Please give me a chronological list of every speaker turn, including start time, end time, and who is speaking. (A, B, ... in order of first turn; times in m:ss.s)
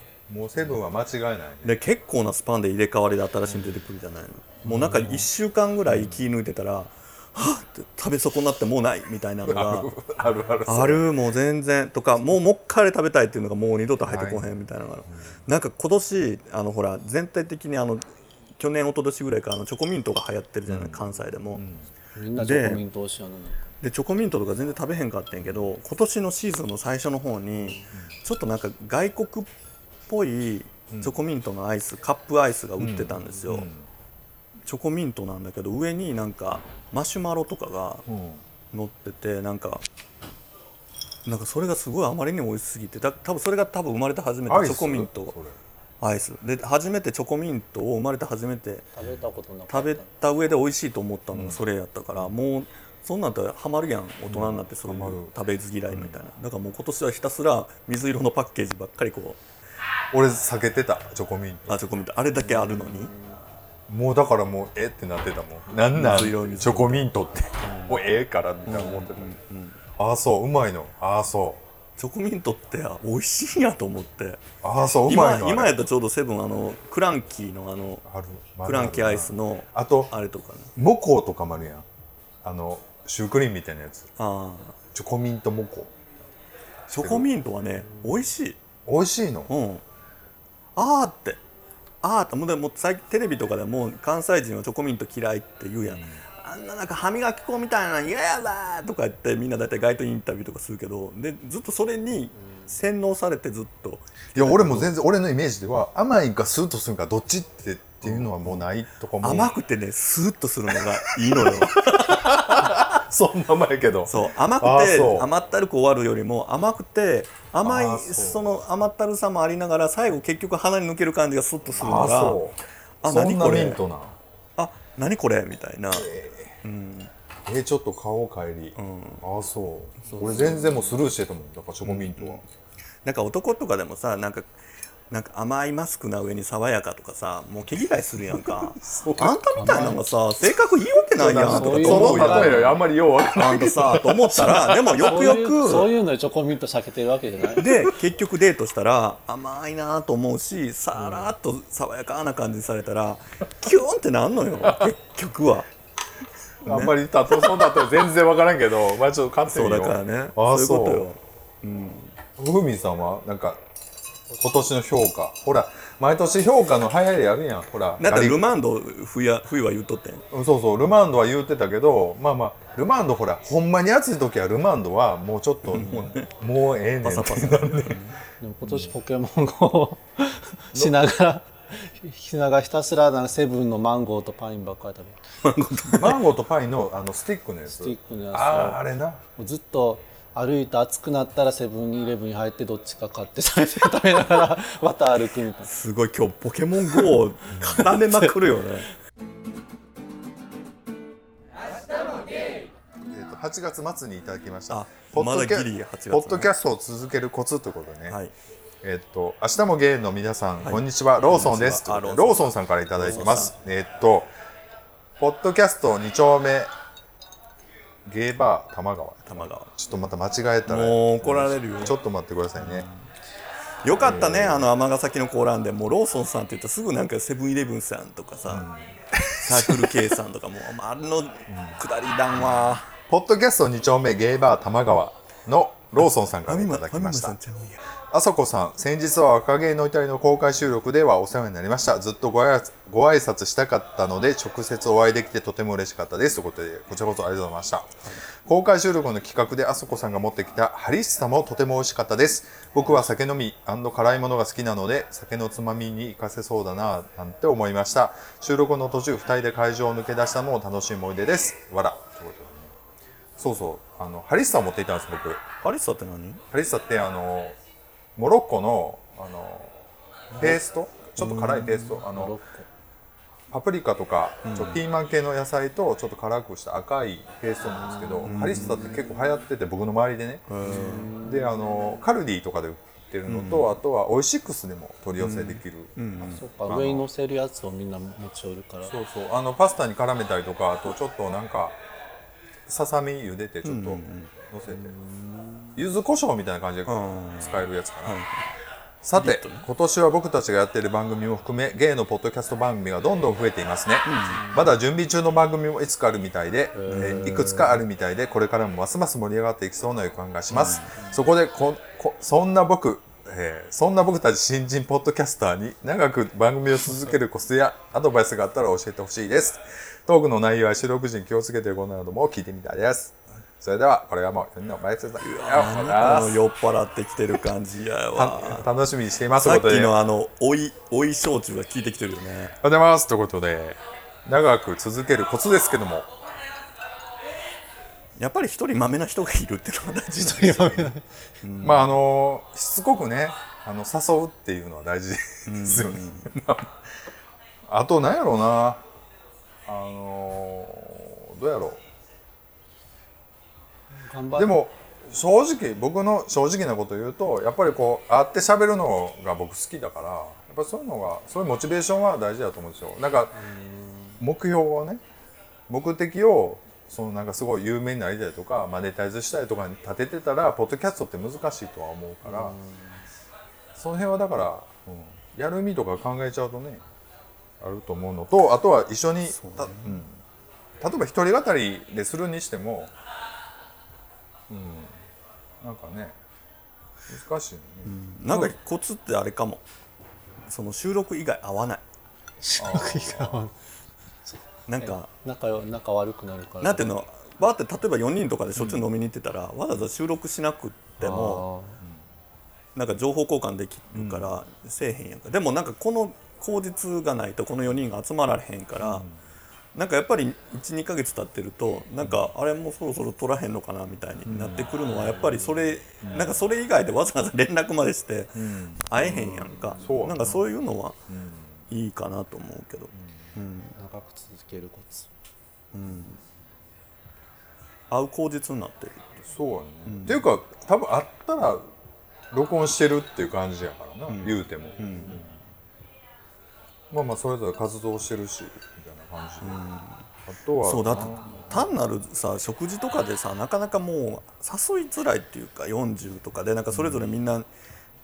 0:00.3-0:01.8 A
0:01.6-0:09.9 B
0:03.5-0:03.8 A
0:04.6-0:05.3 A
0:05.9-0:06.2 A
0:09.4-0:11.0 A
0:10.7-0:21.6 B
0:14.0-0:14.5 A
0:20.7-0:21.9 A
0:22.1-0:23.7 C
0:22.4-0:22.8 B
0:23.8-0:29.5 B
0:30.1-0:33.7 B
0:30.9-0:31.2 A
0:32.8-0:33.9 A
0:34.6-0:38.0 B
0:38.1-0:38.4 A
0:38.7-0:39.8 B
0:41.2-0:45.3 B
0:44.5-0:45.6 A
0:46.0-0:48.9 B
0:48.9-0:50.1 C
0:49.7-0:59.4 B
0:51.3-0:51.6 A
0:54.3-0:55.3 A
0:55.9-0:56.1 A
1:00.1-1:01.8 A
1:01.7-1:03.1 B
1:02.4-1:03.4 C
1:03.9-1:09.3 A
1:05.9-1:07.1 B
1:07.6-1:09.8 B
1:10.0-1:11.6 A
1:12.0-1:14.4 B
1:14.6-1:15.7 A
1:15.0-1:18.0 B
1:18.0-1:20.1 A
1:18.6-1:20.7 B
1:20.8-1:21.8 A
1:22.4-1:24.1 A
1:24.2-1:24.8 B
1:24.9-1:26.0 A
1:26.9-1:28.6 B
1:27.0-1:27.3 A
1:28.8-1:29.5 A
1:29.5-1:29.8 B
1:30.8-1:31.4 B
1:32.0-1:44.9 B
1:35.8-1:36.2 A
1:42.4-1:42.7 C
1:44.3-1:49.5 A
1:48.0-1:48.6 B
1:49.2-1:52.9 B
1:51.0-1:55.3 A
1:54.1-2:02.4 B
1:57.6-1:58.6 A
2:01.8-2:04.2 A
2:03.0-2:03.8 B
2:04.6-2:06.1 B
2:05.9-2:06.6 A
2:06.6-2:07.1 B
2:07.4-2:12.4 A
2:08.8-2:09.2 B
2:10.0-2:10.7 B
2:10.5-2:10.8 C
2:11.8-2:12.4 B
2:13.0-2:14.5 B
2:15.1-2:22.7 B
2:18.3-2:19.4 A
2:19.6-2:20.0 C
2:21.2-2:25.2 A
2:21.3-2:22.8 C
2:23.4-2:25.9 B
2:25.0-2:27.7 C
2:27.6-2:35.7 B
2:31.0-2:31.3 A
2:36.6-2:41.1 A
2:36.6-2:36.9 B
2:39.4-2:42.2 B
2:42.4-2:43.6 A
2:44.4-2:48.4 A
2:48.0-2:50.2 B
2:50.3-2:58.0 A
2:55.7-2:56.2 B
2:57.0-2:58.2 B
2:58.4-3:05.3 C
2:58.6-2:58.9 A
3:05.4-3:06.2 B
3:05.9-3:09.2 A
3:07.7-3:08.8 C
3:09.3-3:15.7 C
3:15.6-3:18.9 B
3:17.5-3:17.9 A
3:17.9-3:18.3 C
3:23.0-3:28.2 A
3:24.7-3:26.5 B
3:28.8-3:34.3 A
3:30.6-3:33.5 B
3:35.2-3:36.7 A
3:38.0-3:42.9 A
3:39.3-3:39.7 B
3:40.6-3:42.0 B
3:42.6-3:43.0 B
3:43.8-3:48.7 B
3:43.9-3:44.7 A
3:48.5-3:50.1 A
3:49.4-3:52.9 B
3:51.5-3:51.8 A
3:52.3-3:57.4 A
3:56.4-3:57.8 B
3:58.1-4:22.7 A
4:23.4-4:25.4 A
4:25.6-4:26.4 B
4:26.5-4:27.6 A
4:28.2-4:29.8 A
4:30.4-4:32.4 A
4:31.2-4:32.0 B
4:32.0-4:32.7 C
4:33.5-4:47.0 A
4:34.4-4:34.8 B
4:37.7-4:39.4 C
4:38.2-4:39.0 B
4:40.5-4:41.1 B
4:40.6-4:42.0 C
4:43.3-4:43.7 B
4:45.2-4:46.4 B
4:46.4-4:48.9 C
4:48.8-4:51.8 A
4:52.7-4:54.9 A
4:53.6-4:54.3 B
4:54.7-4:55.8 C
4:55.7-4:58.2 A
4:56.9-4:58.5 B
4:59.0-5:26.4 A
4:59.2-4:59.7 B
5:04.0-5:04.4 B
5:04.4-5:04.7 C
5:06.7-5:07.7 C
5:06.9-5:07.4 B
5:10.5-5:11.0 B
5:25.2-5:28.7 B
5:28.1-5:29.9 A
5:29.4-5:32.5 B
5:32.6-5:36.1 A
5:38.2-5:41.9 B
5:40.2-5:41.0 C
5:41.6-5:46.7 A
5:45.5-5:46.3 B
5:47.7-5:48.8 A
5:49.6-5:51.8 A
5:53.9-5:54.6 C
5:54.4-6:03.4 A
6:03.3-6:04.2 C
6:04.2-6:05.0 A
6:05.7-6:12.6 A
6:12.2-6:13.0 C
6:13.8-6:16.8 A
6:17.6-6:20.2 A
6:19.3-6:20.0 B
6:20.8-6:22.9 A
6:24.5-6:25.0 A
6:25.6-6:26.2 A
6:27.1-6:28.0 A
6:27.8-6:29.6 B
6:30.4-6:31.8 B
6:32.4-6:33.5 C
6:32.6-6:33.4 A
6:34.2-6:37.0 C
6:34.7-6:35.1 B
6:36.6-6:41.4 B
6:41.0-6:41.8 C
6:41.8-6:42.0 A
6:42.7-6:49.0 B
6:43.9-6:44.3 A
6:48.8-6:49.2 A
6:49.7-7:01.0 B
6:52.0-6:52.3 A
6:54.2-6:54.8 A
6:54.9-6:55.7 C
6:56.0-6:56.4 A
6:58.3-7:00.4 A
7:01.1-7:01.6 A
7:01.7-7:03.7 B
7:02.9-7:03.2 A
7:03.7-7:05.1 C
7:05.7-7:06.2 B
7:07.9-7:09.2 B
7:09.3-7:11.7 A
7:09.8-7:10.2 B
7:12.3-7:15.4 A
7:14.1-7:15.2 B
7:16.9-7:19.7 A
7:19.4-7:20.0 B
7:20.2-7:21.7 A
7:20.6-7:27.5 B
7:26.7-7:27.0 A